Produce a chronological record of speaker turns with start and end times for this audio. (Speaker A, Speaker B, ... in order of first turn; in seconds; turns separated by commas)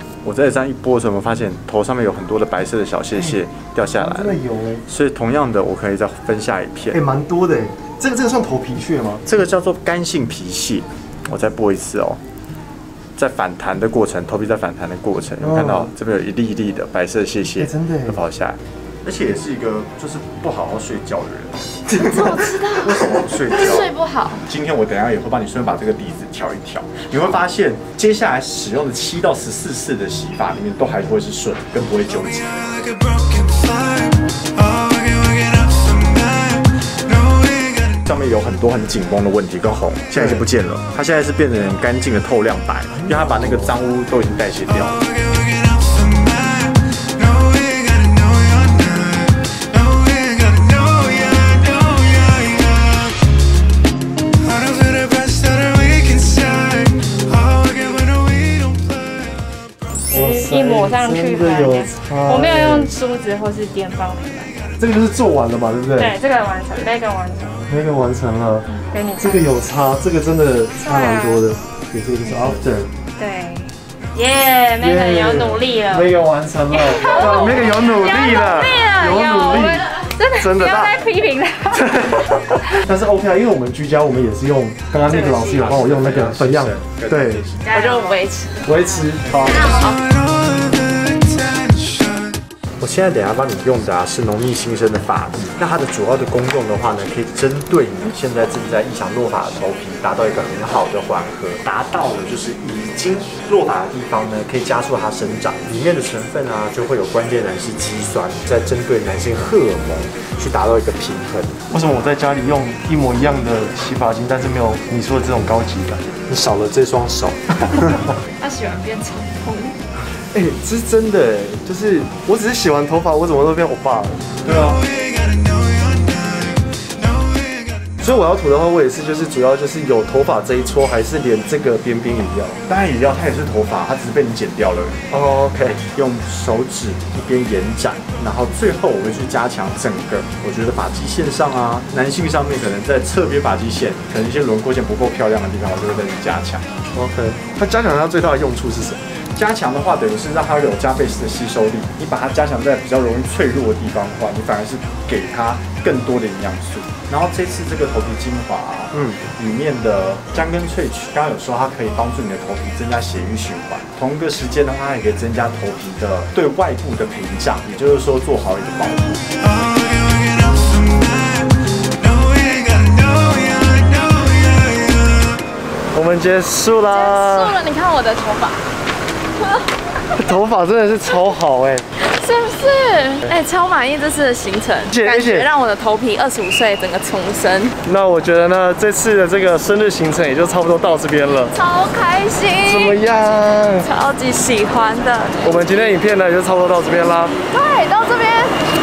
Speaker A: 0.2-4.4, Speaker B: 3.1-3.4, Speaker B: 4.0-4.8, Speaker A: 4.9-7.0, Speaker B: 6.9-9.2, Speaker A: 9.2-12.2, Speaker A: 13.2-21.6, Speaker B: 15.4-15.9, Speaker B: 17.6-18.2, Speaker B: 21.9-23.1, Speaker C: 22.0-24.4, Speaker A: 22.8-23.9, Speaker A: 24.4-32.9, Speaker A: 38.0-45.0, Speaker B: 40.1-40.5, Speaker B: 42.9-43.8, Speaker B: 60.1-62.9, Speaker D: 60.1-64.6, Speaker B: 64.8-66.2, Speaker D: 66.0-67.7, Speaker B: 67.7-72.9, Speaker D: 68.9-69.5, Speaker D: 70.8-71.4, Speaker D: 73.2-76.1, Speaker B: 74.8-81.0, Speaker C: 76.7-80.4, Speaker D: 77.1-79.9, Speaker D: 80.5-82.0, Speaker B: 81.7-87.4, Speaker D: 85.1-85.3, Speaker C: 85.1-85.4, Speaker A: 85.3-87.7, Speaker C: 87.7-88.7, Speaker D: 87.7-88.2, Speaker B: 88.6-89.7, Speaker C: 89.5-90.0, Speaker A: 92.8-111.6, Speaker B: 111.7-116.1, Speaker A: 116.2-118.1, Speaker C: 118.4-119.8, Speaker B: 120.3-124.2, Speaker A: 124.4-124.8, Speaker B: 128.0-132.6, Speaker A: 132.7-135.0, Speaker B: 135.1-135.8, Speaker A: 135.8-146.7, Speaker B: 146.9-149.0, Speaker A: 149.3-169.2, Speaker B: 158.9-159.2, Speaker B: 175.9-177.6, Speaker C: 176.9-178.7, Speaker B: 180.2-181.9, Speaker C: 182.0-187.8, Speaker B: 184.9-185.5, Speaker B: 187.8-191.6, Speaker C: 191.5-193.0, Speaker B: 192.7-193.9, Speaker C: 193.8-195.4, Speaker B: 195.4-197.3, Speaker C: 197.5-198.6